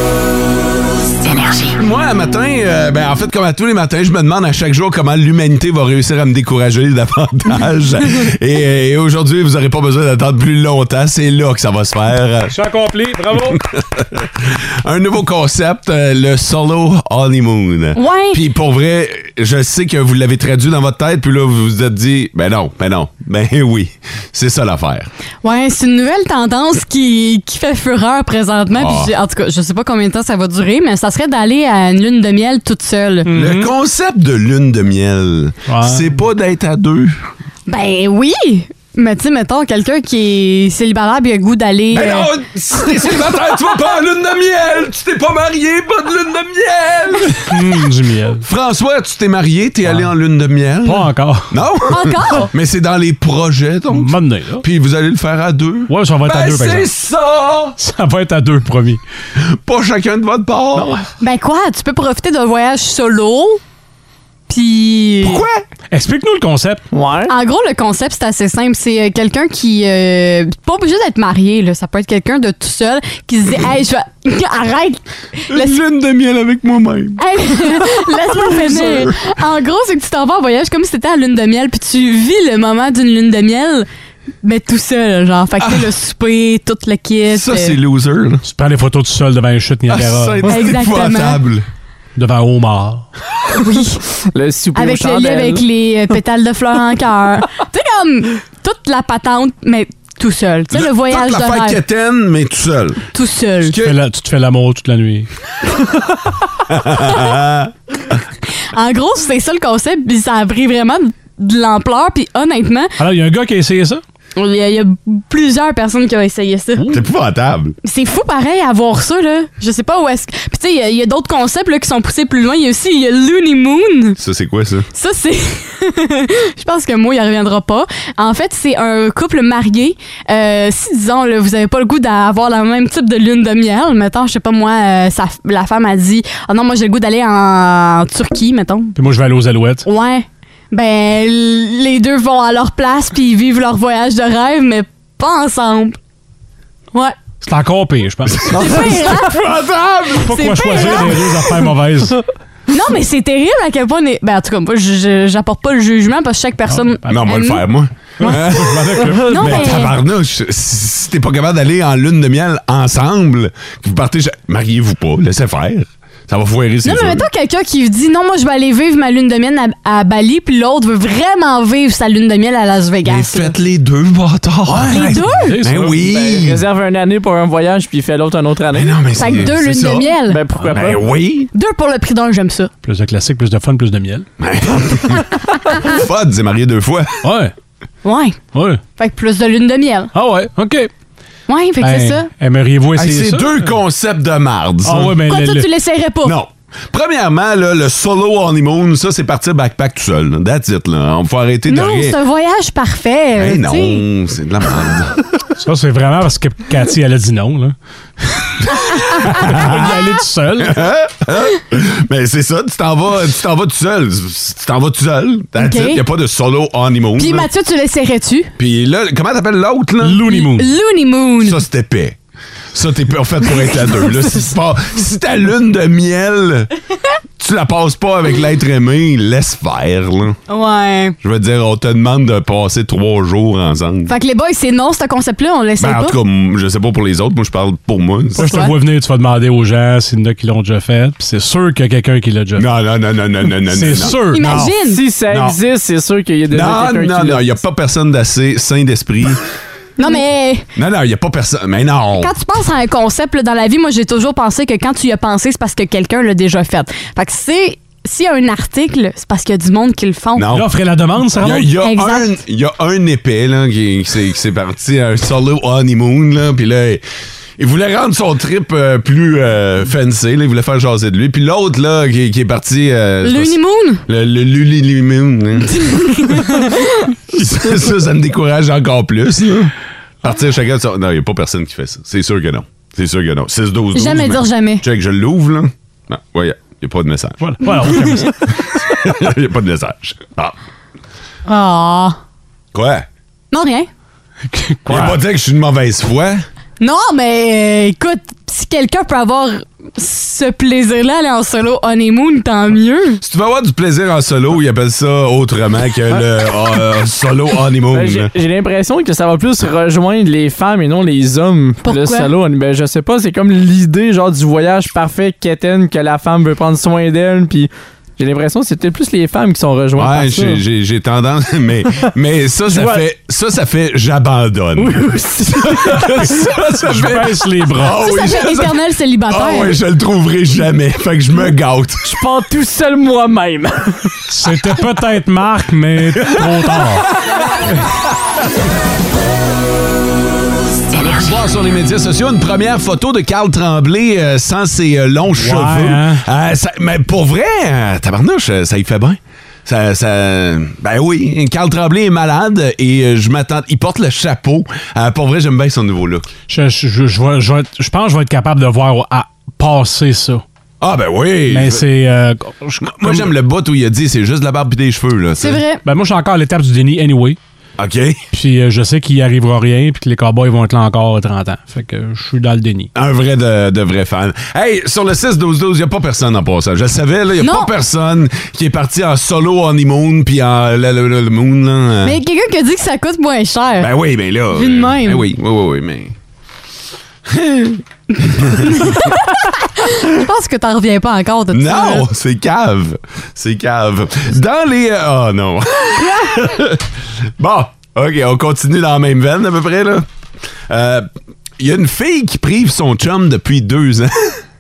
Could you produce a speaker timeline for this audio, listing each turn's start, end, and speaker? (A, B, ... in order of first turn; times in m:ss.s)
0:01.7-0:12.6 A
0:12.5-0:13.6 B
0:13.4-0:25.1 A
0:18.0-0:18.4 C
0:25.4-0:33.3 C
0:28.7-0:29.1 A
0:33.3-0:33.7 B
0:33.3-0:37.2 A
0:35.7-0:36.1 B
0:37.7-0:42.3 C
0:41.9-0:47.6 A
0:47.4-0:48.4 B
0:48.4-0:57.8 A
0:50.8-0:51.6 B
0:51.9-0:52.5 C
0:53.9-0:54.6 B
0:55.9-0:56.9 B
0:57.8-0:59.0 B
0:59.4-1:01.0 A
1:01.2-1:03.6 C
1:04.5-1:05.4 C
1:05.2-1:05.7 A
1:05.9-1:06.8 B
1:06.9-1:07.3 D
1:07.3-1:15.8 C
1:15.5-1:19.3 A
1:17.2-1:23.9 C
1:24.4-1:27.8 C
1:27.3-1:28.4 A
1:28.4-1:30.5 B
1:29.9-1:31.7 A
1:30.4-1:31.4 C
1:32.2-1:33.1 B
1:33.6-1:34.0 C
1:34.3-1:35.6 D
1:34.8-1:41.8 C
1:40.7-1:43.0 A
1:43.1-1:43.8 C
1:43.6-1:44.0 A
1:43.8-1:45.3 B
1:46.7-1:47.7 A
1:48.7-1:53.0 C
1:53.0-1:54.0 B
1:54.4-1:56.9 C
1:56.9-1:57.8 A
1:57.8-2:04.2 C
2:04.2-2:04.9 A
2:04.9-2:19.0 C
2:19.0-2:19.9 B
2:19.8-2:26.0 C
2:27.4-2:28.9 B
2:28.3-2:31.2 A
2:28.5-2:29.4 C
2:30.2-2:32.2 B
2:30.3-2:31.2 C
2:32.7-2:37.6 C
2:36.7-2:37.0 B
2:37.1-2:47.3 A
2:38.2-2:39.7 B
2:39.1-2:39.9 C
2:46.8-2:53.5 C
2:53.0-2:56.6 A
2:54.7-2:56.0 B
2:54.9-2:55.6 C
2:56.0-2:59.0 D
2:58.7-3:00.1 A
2:59.2-3:00.4 C
3:00.3-3:01.0 D
3:00.7-3:01.5 A
3:01.5-3:02.7 C
3:02.8-3:04.3 B
3:04.4-3:05.3 A
3:05.8-3:07.2 A
3:07.2-3:07.5 B
3:08.0-3:08.4 C
3:08.5-3:08.8 B
3:09.0-3:10.1 C
3:10.1-3:10.9 B
3:11.5-3:12.3 C
3:11.8-3:13.5 B
3:13.0-3:15.2 A
3:14.8-3:15.7 B
3:15.3-3:16.4 C
3:16.2-3:22.2 A
3:21.7-3:24.0 C
3:23.4-3:25.2 A
3:25.6-3:30.8 B
3:29.2-3:30.0 A
3:30.6-3:37.5 A
3:35.6-3:36.0 C
3:37.2-3:38.5 C
3:38.6-3:40.2 A
3:40.0-3:40.7 B
3:40.3-3:41.6 C
3:41.4-3:42.2 A
3:42.7-3:46.7 A
3:47.4-3:50.4 A
3:50.5-3:51.2 C
3:51.2-3:54.1 A
3:54.1-3:56.2 C
3:55.8-3:58.5 A
3:58.4-4:02.6 B
3:58.4-3:58.7 C
4:02.6-4:04.2 A
4:03.7-4:04.8 B
4:04.2-4:05.0 C
4:04.8-4:07.5 D
4:05.3-4:05.6 A
4:06.5-4:09.4 A
4:10.0-4:10.7 C
4:10.8-4:12.3 A
4:12.2-4:20.5 C
4:20.4-4:20.7 A
4:20.5-4:21.7 B
4:21.4-4:27.0 A
4:21.8-4:22.3 C
4:27.6-4:36.4 A
4:33.2-4:34.0 C
4:35.8-4:37.1 C
4:37.3-4:48.1 A
4:43.9-4:44.8 C
4:47.4-4:48.5 B
4:47.9-4:48.3 C
4:48.7-4:50.6 A
4:51.5-4:52.2 C
4:52.7-4:53.1 A
4:53.5-4:53.9 C
4:54.5-4:55.2 B
4:54.9-4:56.4 A
4:56.8-5:03.2 C
5:03.2-5:08.3 A
5:07.9-5:20.6 D
5:11.8-5:12.3 C
5:20.0-5:25.0 A
5:22.7-5:23.0 D
5:24.8-5:26.1 D
5:25.6-5:28.8 A
5:26.8-5:28.0 B
5:28.0-5:29.8 C
5:29.3-5:32.1 A
5:32.0-5:34.2 D
5:34.3-5:37.1 B
5:36.2-5:36.7 A
5:40.9-5:56.3 A
5:45.4-5:46.2 B
5:56.5-6:00.4 B
6:00.8-6:01.8 A
6:01.5-6:03.3 B
6:02.8-6:05.6 A
6:05.4-6:05.8 C
6:05.8-6:07.4 B
6:07.8-6:08.2 A
6:08.3-6:12.9 B
6:13.0-6:22.2 A
6:17.4-6:17.7 C
6:22.0-6:23.9 C
6:23.8-6:26.2 A
6:24.5-6:25.3 C
6:27.3-6:29.1 A
6:28.3-6:32.1 C
6:31.5-6:40.1 A
6:40.7-6:41.1 A
6:41.6-6:44.4 A